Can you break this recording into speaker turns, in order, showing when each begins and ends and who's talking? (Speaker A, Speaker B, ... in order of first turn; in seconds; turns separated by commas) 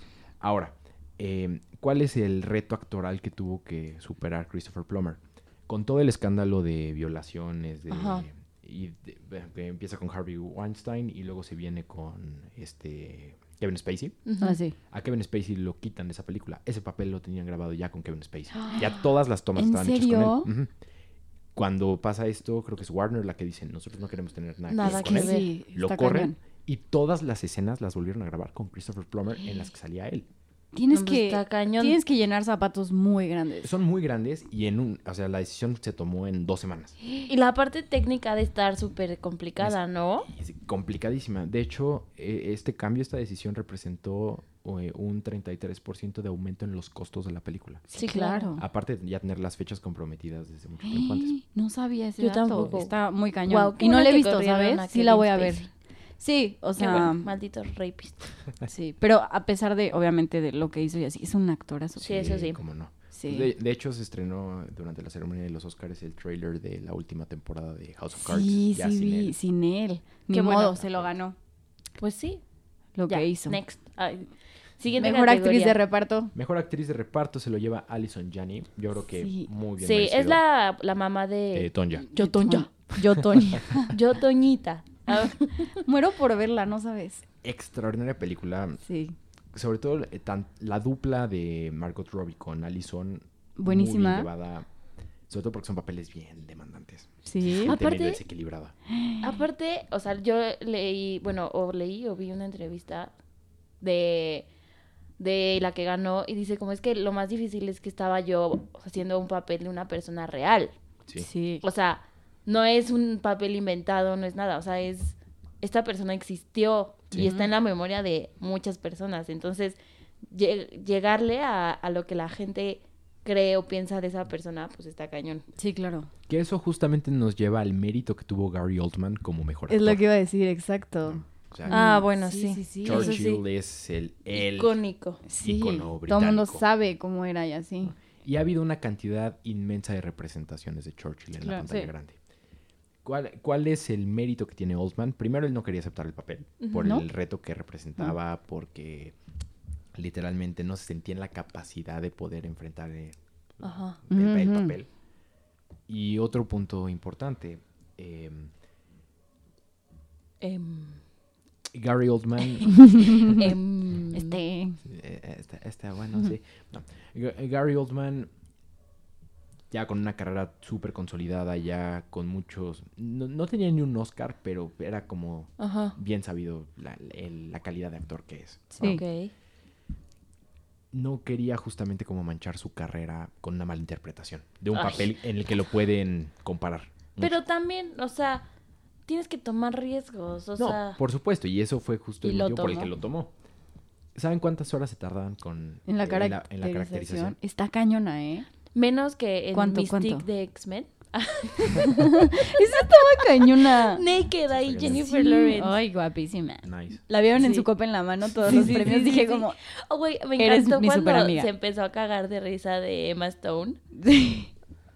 Speaker A: 0.4-14.2, Speaker B: 7.9-8.2, Speaker B: 14.2-14.6, Speaker C: 14.4-14.8, Speaker A: 14.9-20.7, Speaker B: 18.6-18.9, Speaker C: 19.6-20.5, Speaker A: 21.6-30.3, Speaker B: 24.7-25.5, Speaker C: 24.8-26.4, Speaker C: 30.7-33.7, Speaker B: 30.9-32.0, Speaker A: 33.6-37.0, Speaker B: 37.3-40.3, Speaker A: 40.3-47.9, Speaker C: 47.9-48.6, Speaker B: 47.9-48.5, Speaker A: 48.6-51.3, Speaker C: 50.8-55.6, Speaker B: 52.2-55.7, Speaker C: 56.2-57.3, Speaker B: 56.8-58.2, Speaker C: 58.7-62.2, Speaker A: 62.0-69.3, Speaker B: 62.0-62.6, Speaker C: 63.1-63.5, Speaker C: 68.2-71.3, Speaker B: 70.3-70.8, Speaker A: 70.8-71.1, Speaker B: 72.0-72.4, Speaker C: 73.0-73.6, Speaker B: 73.1-75.8, Speaker C: 75.0-76.3, Speaker A: 76.3-80.4, Speaker C: 79.2-79.5, Speaker B: 79.8-82.7, Speaker A: 81.5-82.1, Speaker C: 82.1-83.9, Speaker B: 83.8-85.8, Speaker C: 85.8-87.2, Speaker A: 87.4-88.8, Speaker C: 88.8-89.2, Speaker A: 89.5-94.7, Speaker C: 93.6-94.3, Speaker A: 95.3-98.8, Speaker C: 97.2-97.8, Speaker B: 97.7-98.2, Speaker C: 98.9-99.4, Speaker B: 99.2-103.1, Speaker B: 103.8-104.5, Speaker B: 105.2-110.7, Speaker C: 111.2-111.6, Speaker B: 111.6-119.8, Speaker C: 117.2-117.5, Speaker B: 120.3-125.4, Speaker C: 125.6-126.1, Speaker A: 126.3-130.0, Speaker C: 129.7-133.2, Speaker A: 131.1-131.8, Speaker B: 131.7-133.4, Speaker A: 132.8-134.8, Speaker B: 134.3-135.2, Speaker C: 135.3-137.9, Speaker A: 135.4-136.6, Speaker A: 138.1-142.2, Speaker C: 141.4-141.9, Speaker A: 143.1-149.2, Speaker B: 146.6-146.9, Speaker A: 149.9-154.9, Speaker B: 153.6-154.0, Speaker C: 154.1-154.8, Speaker A: 155.9-158.5, Speaker B: 160.4-161.0, Speaker A: 161.7-163.4, Speaker C: 162.7-163.4, Speaker B: 163.3-164.4, Speaker C: 164.1-164.8, Speaker A: 164.8-168.3, Speaker A: 169.7-179.0, Speaker B: 175.6-175.9, Speaker C: 178.8-179.0, Speaker B: 178.8-179.3, Speaker A: 180.9-187.4, Speaker B: 184.7-185.1, Speaker B: 187.2-188.4, Speaker B: 189.1-191.0, Speaker A: 190.6-193.3, Speaker B: 192.2-192.9, Speaker A: 194.2-197.4, Speaker C: 195.9-198.5, Speaker B: 198.7-205.8, Speaker C: 199.6-200.3, Speaker C: 201.7-204.0, Speaker A: 204.6-205.0, Speaker C: 205.0-209.6, Speaker A: 206.6-207.0, Speaker B: 207.4-207.7, Speaker B: 208.4-213.8, Speaker C: 210.4-211.5, Speaker C: 214.0-214.5